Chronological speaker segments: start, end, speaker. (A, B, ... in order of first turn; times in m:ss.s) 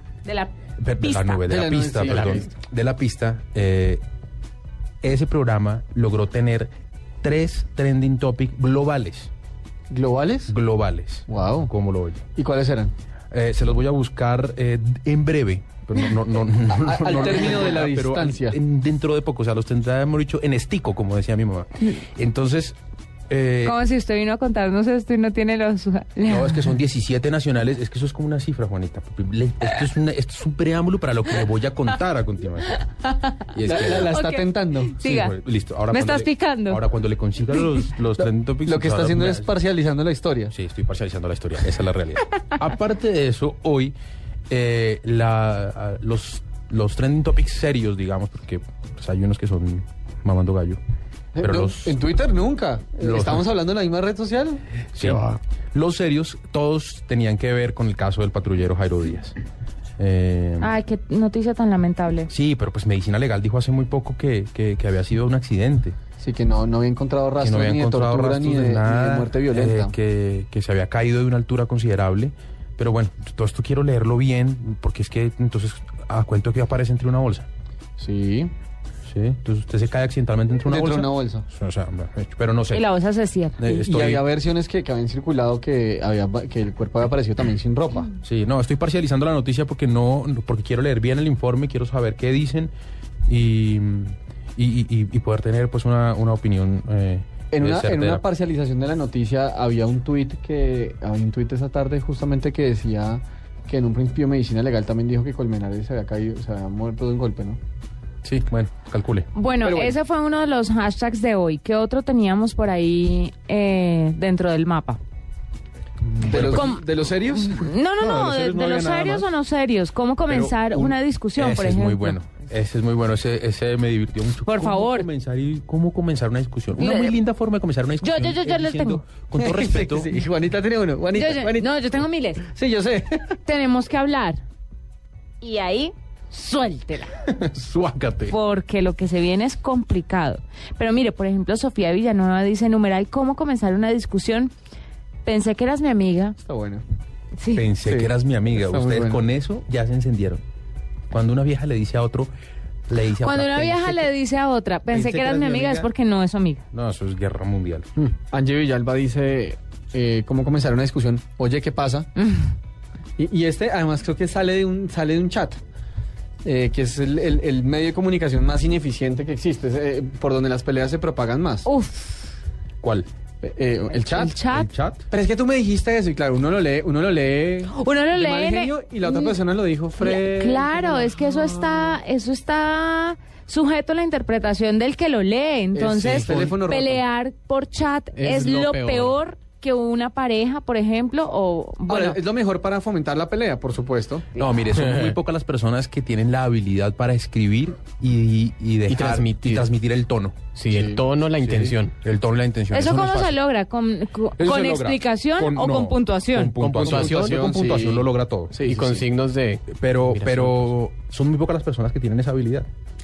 0:00.2-0:01.4 A
0:00.8-0:04.0 B
0:01.4-0:02.5 C
0:05.0-0:09.3 B
0:09.9-0:10.5 C
0:10.5-0:12.2 B
0:11.3-0:11.7 C
0:12.4-0:12.9 C
0:13.3-0:22.8 B
0:16.8-0:18.6 C
0:23.3-0:23.8 B
0:23.6-0:26.7 A
0:26.2-0:32.9 B
0:33.5-0:34.2 B
0:33.6-0:34.9 C
0:34.1-0:35.3 A
0:35.0-0:39.5 B
0:35.9-0:36.8 A
0:38.2-0:40.5 C
0:40.5-0:43.9 B
0:44.5-0:50.8 B
0:51.4-0:54.6 C
0:51.4-0:51.9 B
0:53.0-0:53.4 B
0:55.0-0:59.4 B
0:55.0-0:55.4 D
1:00.0-1:00.8 B
1:00.6-1:02.3 A
1:02.3-1:06.0 B
1:06.2-1:09.9 C
1:07.4-1:17.5 B
1:18.0-1:18.5 C
1:19.0-1:22.8 B
1:20.6-1:21.4 C
1:22.7-1:23.6 A
1:23.6-1:24.2 B
1:23.6-1:28.1 C
1:28.2-1:32.7 B
1:33.3-1:38.2 B
1:37.5-1:47.6 C
1:48.2-1:49.3 B
1:49.3-1:55.0 A
1:49.6-1:50.0 C
1:56.1-1:57.6 C
1:56.3-1:56.7 B
1:56.3-2:02.2 A
1:58.0-1:59.3 B
2:00.3-2:10.1 B
2:04.4-2:05.1 A
2:06.8-2:07.2 A
2:08.0-2:09.0 A
2:09.4-2:11.7 C
2:11.1-2:12.4 A
2:12.4-2:13.4 C
2:13.4-2:14.4 A
2:15.4-2:17.1 A
2:17.2-2:18.4 B
2:18.2-2:24.5 A
2:25.2-2:26.4 A
2:26.4-2:26.8 C
2:27.4-2:27.6 A
2:27.5-2:30.4 B
2:27.8-2:29.2 C
2:31.1-2:32.3 B
2:32.9-2:34.1 B
2:33.2-2:36.6 A
2:34.9-2:35.9 B
2:36.7-2:37.9 B
2:38.1-2:42.1 C
2:43.2-2:45.6 C
2:46.4-2:51.7 C
2:51.6-2:52.3 A
2:52.8-2:53.1 B
2:53.4-2:54.3 C
2:54.0-2:54.7 A
2:54.5-2:55.0 B
2:55.1-3:01.7 C
2:57.7-2:59.4 A
3:00.0-3:12.2 A
3:05.7-3:07.0 C
3:06.0-3:06.5 D
3:08.2-3:09.2 D
3:11.9-3:14.2 C
3:14.3-3:20.4 B
3:14.8-3:15.1 D
3:18.9-3:19.7 D
3:20.5-3:21.9 D
3:20.7-3:21.0 C
3:21.4-3:23.4 B
3:22.7-3:26.5 A
3:24.4-3:29.1 B
3:26.6-3:27.5 D
3:26.8-3:28.1 C
3:28.5-3:30.7 D
3:29.7-3:32.7 B